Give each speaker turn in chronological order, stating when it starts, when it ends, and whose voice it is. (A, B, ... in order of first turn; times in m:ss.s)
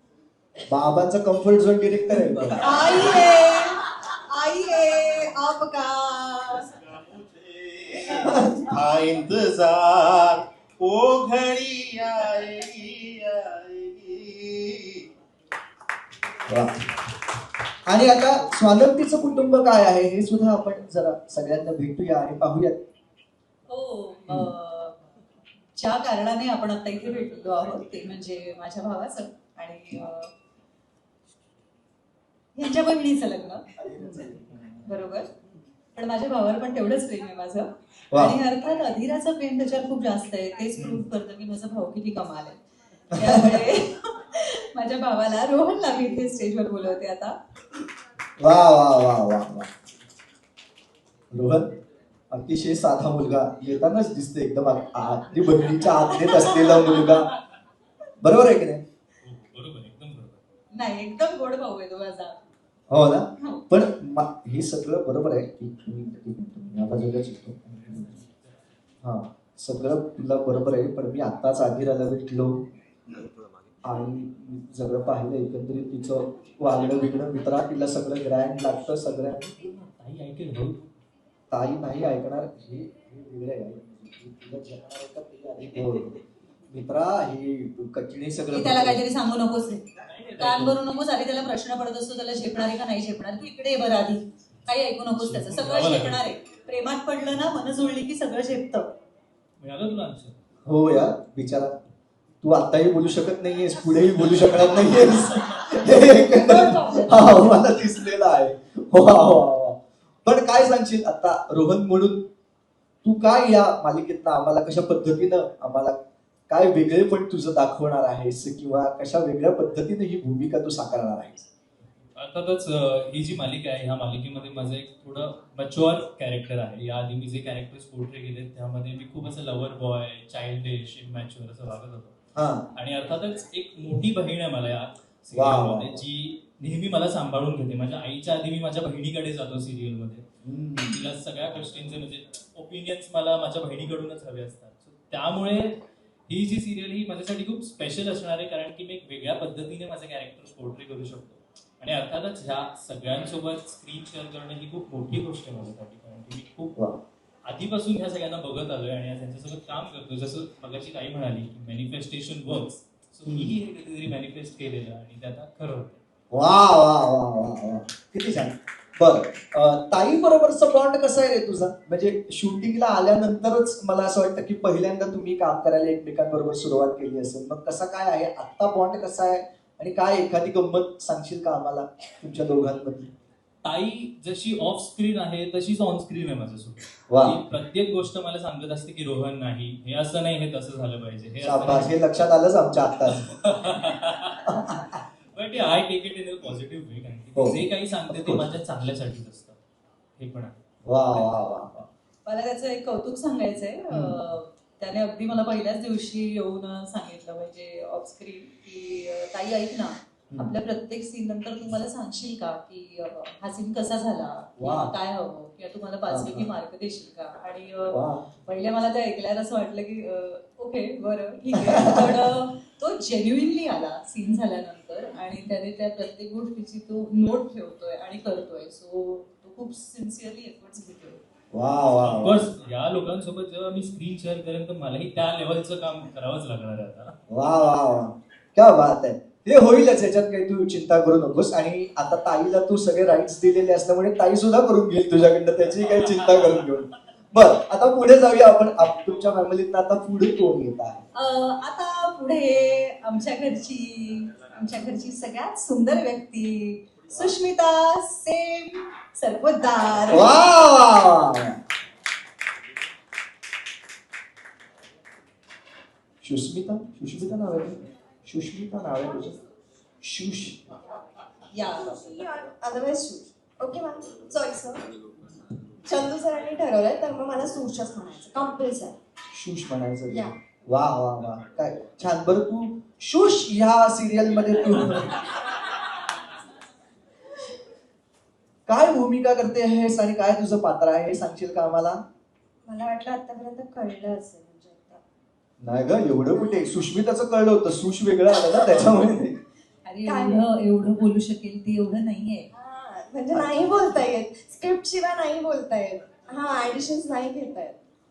0:00.7-0:03.0 A
0:02.6-0:06.6 B
0:06.6-0:15.0 C
0:08.2-0:08.6 A
0:16.5-0:16.8 A
0:17.9-0:22.8 A
0:23.7-0:24.9 B
0:25.8-0:30.3 B
0:32.5-0:34.2 B
0:33.8-0:34.9 A
0:34.9-0:35.3 B
0:35.9-0:42.6 B
0:38.1-0:38.4 A
0:40.8-0:41.1 A
0:43.1-0:47.4 B
0:43.2-0:43.6 A
0:48.4-0:49.7 A
0:51.3-0:51.8 A
0:52.3-0:57.3 A
0:56.2-0:57.1 B
0:58.2-0:58.8 A
0:59.2-1:00.4 D
1:00.7-1:02.4 B
1:02.9-1:08.1 A
1:07.8-1:08.7 D
1:09.0-1:12.6 A
1:13.8-1:19.5 A
1:19.5-1:20.9 D
1:21.5-1:29.0 A
1:28.5-1:29.8 B
1:30.1-1:30.8 D
1:30.4-1:38.9 B
1:35.1-1:36.2 D
1:39.6-1:40.4 D
1:40.6-1:41.8 A
1:42.4-1:52.3 A
1:46.0-1:47.5 B
1:53.0-1:56.0 A
1:56.5-2:01.5 A
2:02.2-2:12.1 D
2:12.4-2:12.7 A
2:12.7-2:20.2 D
2:15.3-2:16.0 A
2:20.4-2:21.0 A
2:20.8-2:36.7 D
2:36.7-2:37.0 A
2:37.4-2:46.0 D
2:43.2-2:43.6 A
2:46.3-3:03.1 A
3:03.6-3:11.9 D
3:07.1-3:07.4 A
3:11.4-3:13.3 A
3:13.1-3:14.6 D
3:14.5-3:15.0 A
3:15.3-3:19.6 D
3:17.3-3:18.5 A
3:20.2-3:20.5 D
3:20.8-3:21.9 A
3:22.2-3:51.2 B
3:23.9-3:24.2 A
3:34.6-3:34.9 A
3:36.1-3:36.5 A
3:37.9-3:38.3 A
3:41.6-3:42.3 A
3:51.5-3:52.5 A
3:52.0-3:57.2 D
3:57.3-4:11.0 A
4:11.2-4:20.6 B
4:20.1-4:21.6 A
4:26.2-4:29.4 A
4:30.0-4:30.7 A
4:31.5-4:32.0 B
4:31.8-4:34.8 E
4:35.8-4:39.0 E
4:39.3-4:45.2 A
4:48.7-4:52.0 A
4:52.6-4:55.0 E
4:55.6-4:59.4 A
4:59.8-5:02.5 B
5:00.0-5:00.4 E
5:02.5-5:07.8 E
5:03.3-5:03.7 A